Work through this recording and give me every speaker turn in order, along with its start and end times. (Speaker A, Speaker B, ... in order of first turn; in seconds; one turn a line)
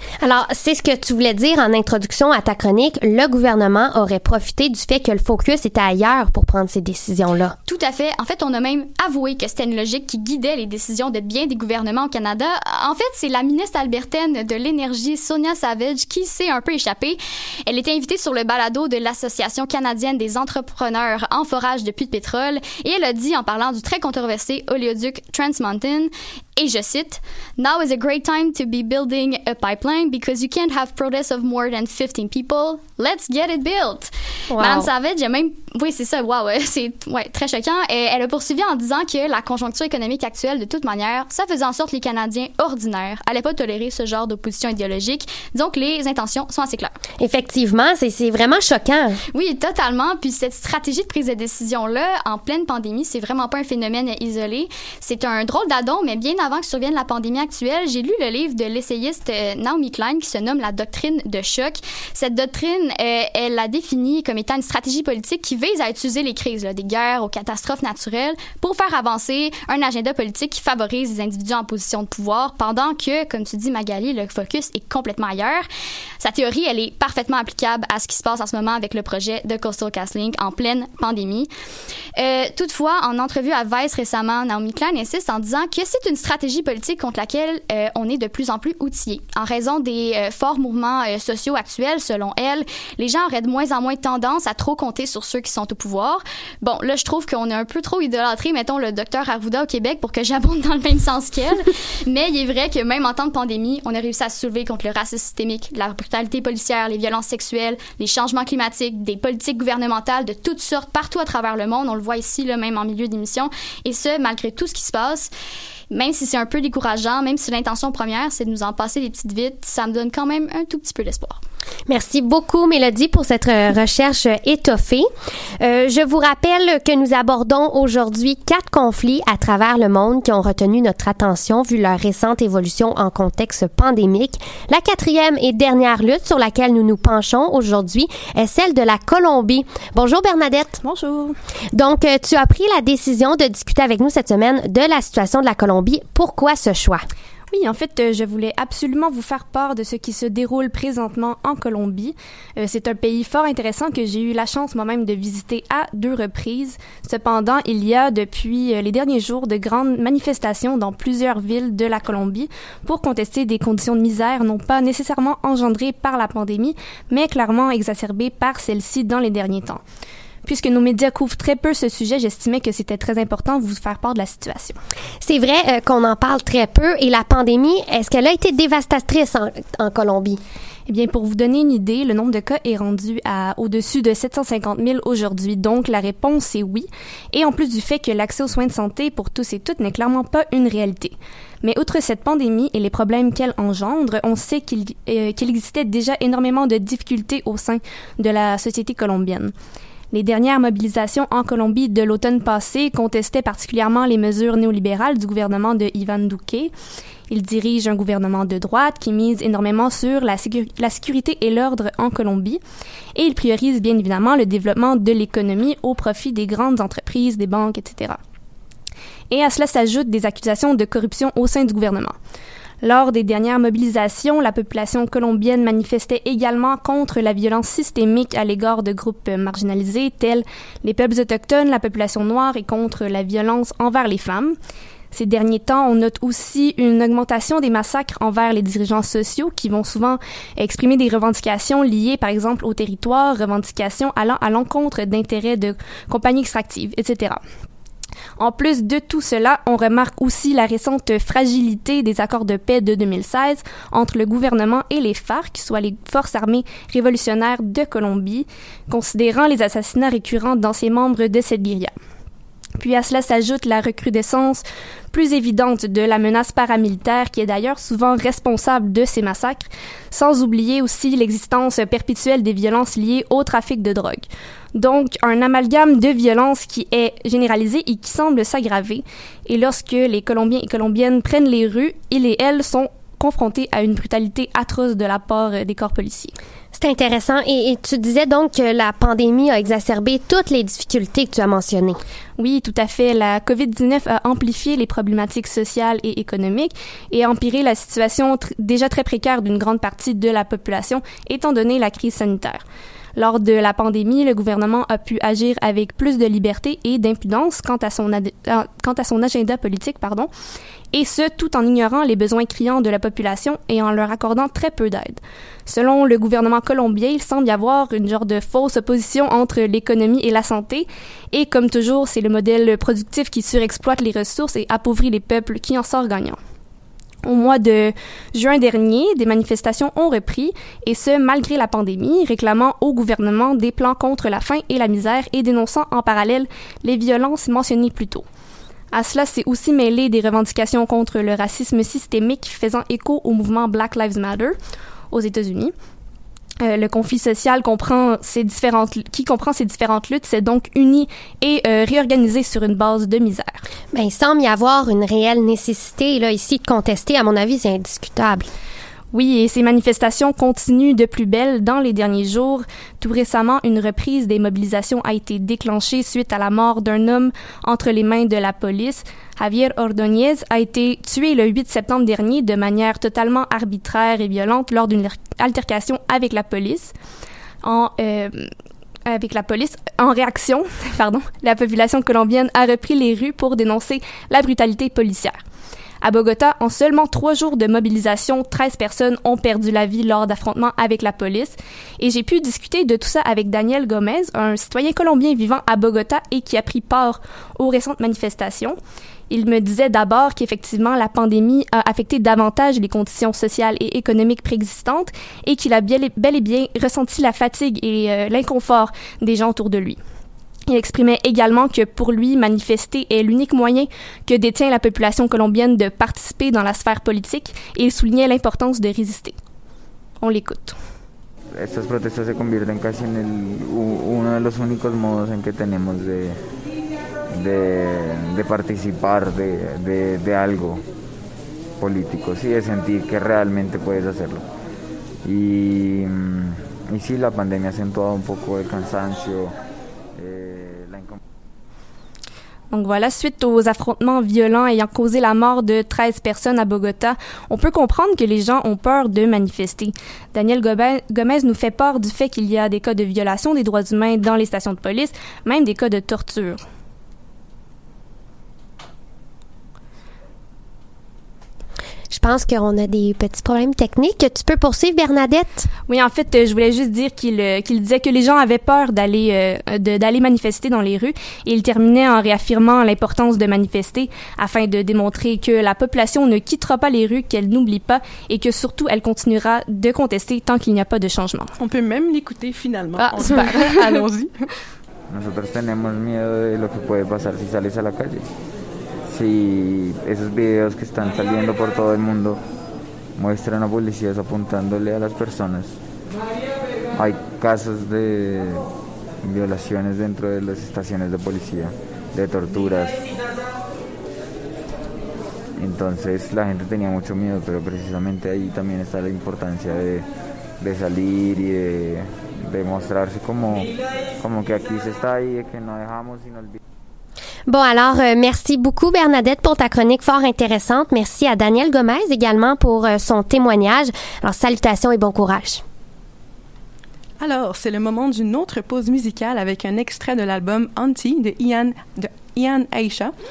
Speaker A: 0.2-7.6
Speaker B: 7.7-46.9
Speaker A: 34.5-34.9
Speaker A: 47.2-49.2
Speaker B: 49.3-75.6
Speaker B: 76.2-81.5
Speaker B: 82.2-115.3
Speaker B: 115.9-121.4
Speaker A: 121.9-125.1
Speaker A: 125.6-140.8
Speaker C: 140.8-141.4
Speaker A: 141.7-147.1
Speaker C: 147.5-169.8
Speaker C: 170.4-174.8
Speaker A: 175.2-180.4
Speaker C: 180.9-199.5
Speaker C: 200.1-206.7
Speaker C: 207.3-212.6
Speaker C: 213.2-218.2
Speaker C: 219.3-222.2
Speaker C: 222.8-234.6
Speaker C: 235.1-247.4
Speaker C: 248.4-261.9
Speaker C: 262.8-286.4
Speaker A: 286.7-292.0
Speaker C: 292.4-302.6
Speaker C: 303.2-310.3
Speaker C: 310.9-326.4
Speaker C: 327.2-338.2
Speaker C: 338.9-344.6
Speaker C: 345.1-345.7
Speaker C: 346.6-353.6
Speaker A: 353.9-358.5
Speaker C: 359.1-376.9
Speaker C: 377.6-378.5
Speaker C: 379.1-385.4
Speaker C: 386.0-398.8
Speaker C: 399.3-410.0
Speaker C: 410.7-419.4
Speaker C: 420.2-420.8
Speaker D: 421.5-426.4
Speaker D: 427.3-430.8
Speaker D: 431.8-434.5
Speaker D: 435.2-439.6
Speaker D: 440.2-441.2
Speaker C: 442.7-456.6
Speaker A: 462.1-465.7
Speaker C: 465.9-481.5
Speaker E: 481.6-484.5
Speaker C: 483.0-484.1
Speaker D: 485.1-488.3
Speaker D: 489.1-492.4
Speaker D: 493.2-495.8
Speaker D: 496.9-498.7
Speaker D: 499.2-503.0
Speaker D: 505.6-510.1
Speaker D: 510.6-516.6
Speaker A: 517.5-525.6
Speaker E: 527.2-533.1